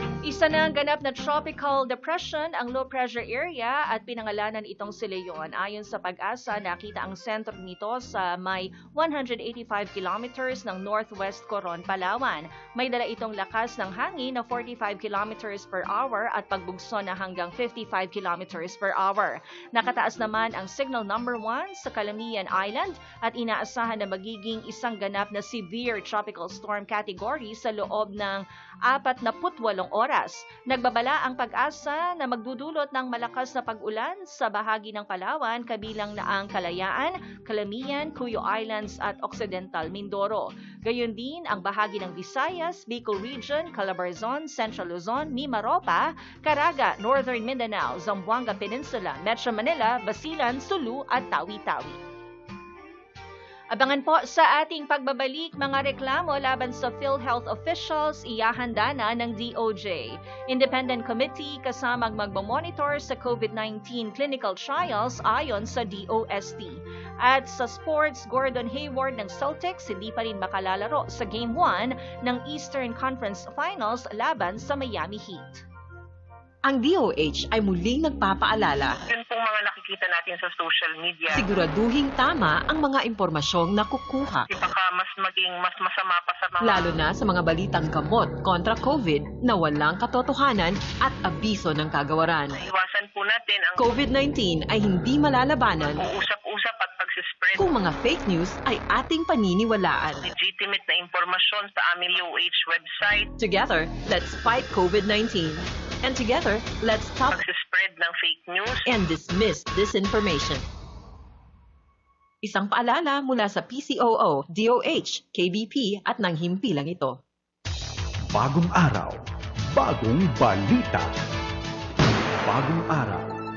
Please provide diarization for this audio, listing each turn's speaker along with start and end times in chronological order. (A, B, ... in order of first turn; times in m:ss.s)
0:00.2-0:52.0 A
0:53.7-1:15.6 A
1:16.6-1:19.0 B
1:19.1-1:21.4 C
1:21.3-1:24.5 B
1:24.5-1:27.0 C
1:26.6-1:32.6 B
1:32.6-1:33.9 C
1:33.8-1:36.0 B
1:35.9-1:37.7 C
1:37.6-1:40.2 B
1:40.2-1:43.3 C
1:43.4-1:47.4 B
1:47.3-1:48.9 C
1:48.9-1:50.6 B
1:52.4-1:57.2 B
1:58.3-1:59.2 D
1:59.7-2:01.1 D
2:02.4-2:03.3 D